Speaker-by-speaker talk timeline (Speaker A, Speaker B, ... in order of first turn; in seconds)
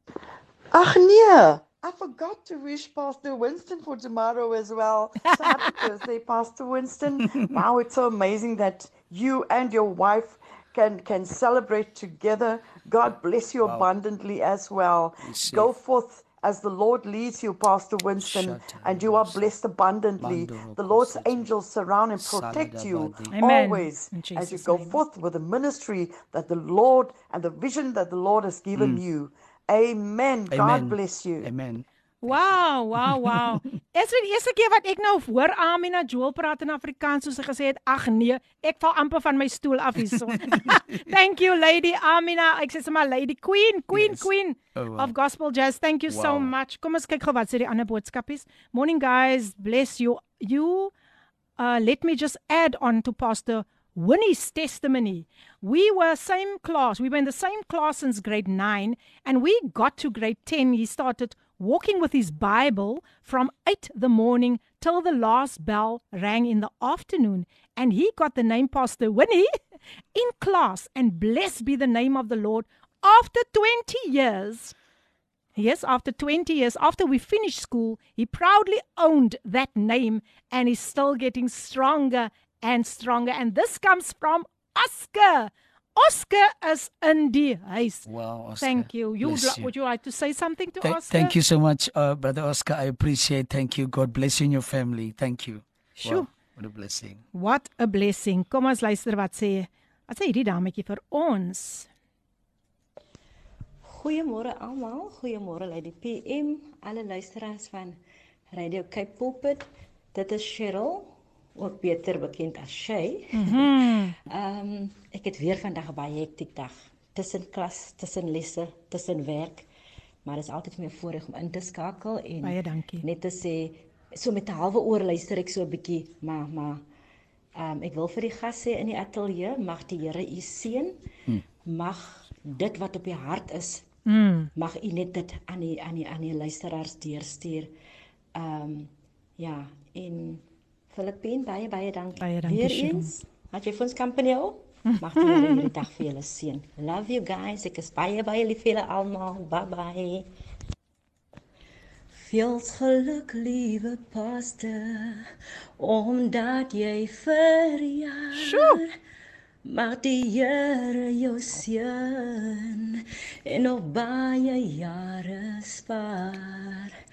Speaker A: 0.7-31.5
Speaker B: 5.3-5.7, 23.3-25.0, 32.2-50.9, 51.6-69.5, 70.1-74.8, 75.6-88.1, 88.6-91.3, 96.0-96.3, 97.3-101.9, 113.3-114.2, 122.4-123.0, 134.1-134.5, 142.2-143.1, 145.2-145.6, 158.3-158.8
Speaker C: 13.6-13.9, 15.2-15.7, 18.2-19.5, 20.2-21.5, 22.2-23.3, 28.8-29.0, 30.5-32.4, 33.1-33.6, 40.1-41.0, 43.9-45.1, 46.1-46.5, 88.1-89.7, 90.8-97.2
Speaker D: 103.8-108.0, 108.5-119.7, 120.2-126.8, 127.6-130.9, 131.6-133.9, 134.6-137.7, 138.3-150.3, 152.1-158.8, 159.7-166.9